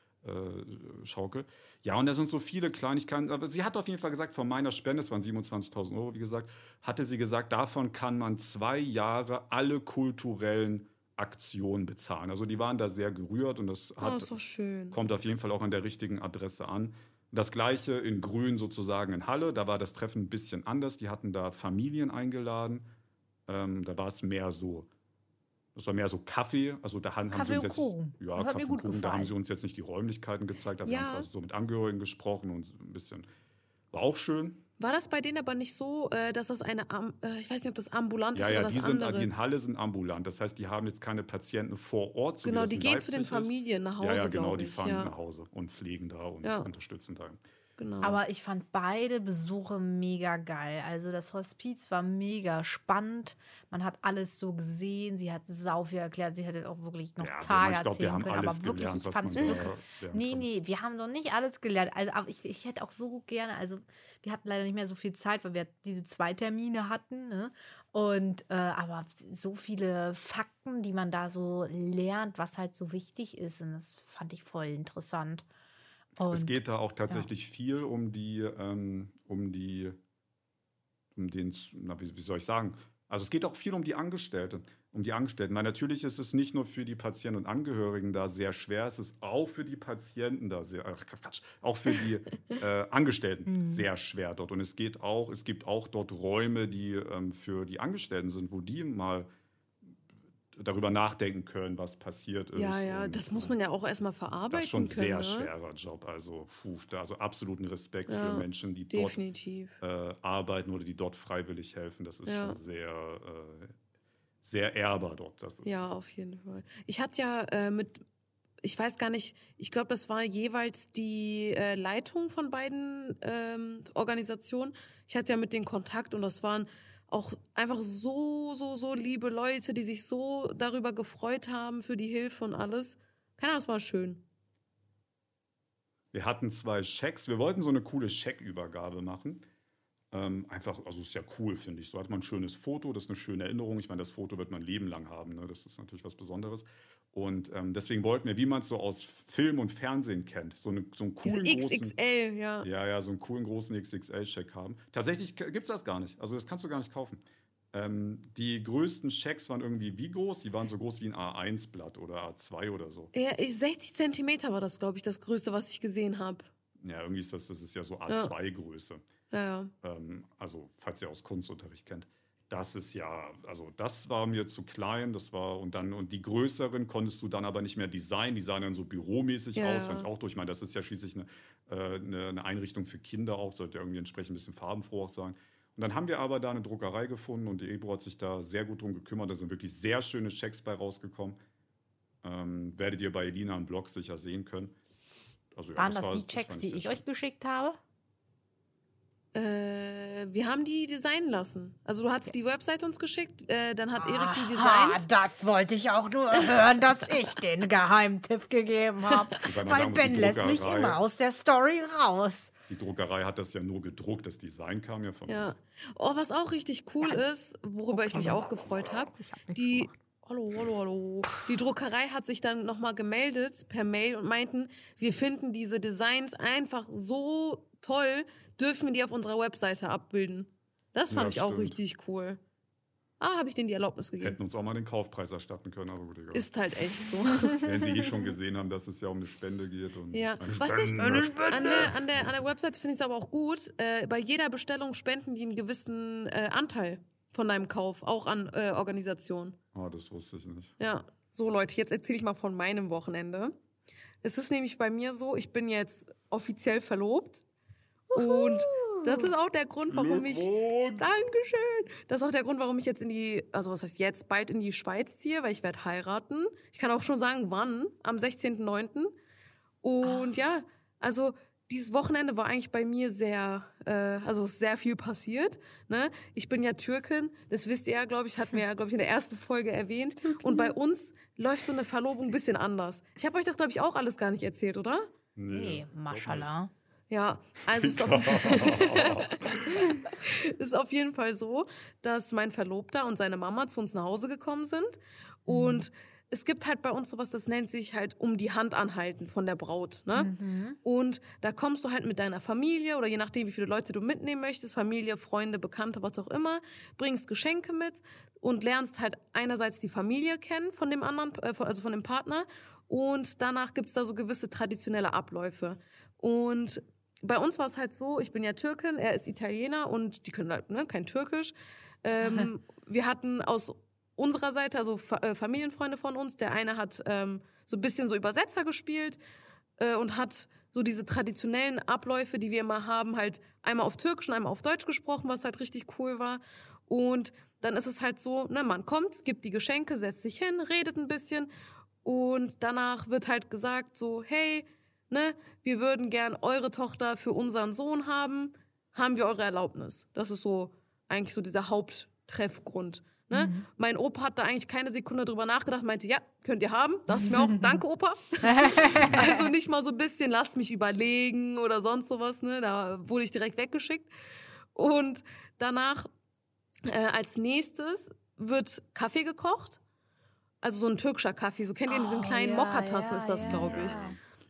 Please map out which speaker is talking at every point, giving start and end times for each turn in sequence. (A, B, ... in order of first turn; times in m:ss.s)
0:00.2-0:14.3 A
0:14.0-0:15.0 B
0:14.9-0:22.9 A
0:23.5-0:24.9 A
0:25.7-0:33.3 A
0:27.3-0:29.3 C
0:30.8-0:31.3 B
0:33.9-0:34.6 A
0:34.8-0:39.3 B
0:38.3-0:47.4 A
0:42.4-0:45.1 B
0:46.4-0:46.7 B
0:47.8-0:48.2 B
0:48.0-1:15.4 C
0:57.2-1:00.5 A
1:16.2-1:16.6 C
1:16.3-1:20.0 A
1:21.2-1:39.3 A
1:33.4-1:33.9 C
1:40.5-1:43.5 A
1:42.6-1:45.5 B
1:44.5-1:49.2 A
1:48.1-1:49.7 B
1:49.8-1:53.7 A
1:52.2-1:52.6 B
1:54.4-1:55.8 A
1:55.6-1:58.0 B
1:58.6-2:14.2 B
2:16.1-2:19.4 A
2:20.1-2:31.9 A
2:31.2-2:32.7 B
2:32.6-2:37.2 A
2:37.7-2:43.1 A
2:43.1-2:46.5 B
2:46.8-2:49.0 A
2:49.3-2:49.7 B
2:49.8-3:11.4 A
2:59.6-3:00.1 B
3:12.2-3:14.7 A
3:15.5-3:17.0 A
3:15.8-3:17.8 C
3:19.3-3:25.0 B
3:24.0-3:32.5 C
3:29.1-3:29.4 B
3:29.4-3:31.0 A
3:32.7-3:35.5 A
3:35.3-3:52.4 B
3:37.9-3:40.0 C
3:51.1-3:51.8 A
3:53.2-3:54.4 B
3:54.2-3:56.5 A
3:56.3-3:57.7 B
3:57.3-4:02.3 A
4:00.1-4:09.6 B
4:09.7-4:10.7 A
4:10.8-4:13.5 B
4:14.2-4:17.4 B
4:18.1-4:29.1 B
4:18.1-4:19.3 C
4:19.9-4:21.1 A
4:29.8-4:45.1 B
4:30.0-4:30.4 C
4:40.2-4:40.8 C
4:45.4-4:46.5 A
4:45.5-4:46.7 C
4:47.1-5:00.3 B
4:47.7-4:49.9 A
4:55.5-4:55.8 C
5:00.1-5:00.8 C
5:00.8-5:29.2 B
5:22.2-5:22.5 C
5:29.8-5:41.5 B
5:42.0-6:04.1 B
5:53.3-5:53.6 C
5:57.1-5:57.8 C
5:58.4-5:59.5 C
6:04.7-6:06.1 B
6:06.8-6:09.8 B
6:10.6-6:14.0 B
6:11.8-6:14.2 C
6:13.4-6:14.2 A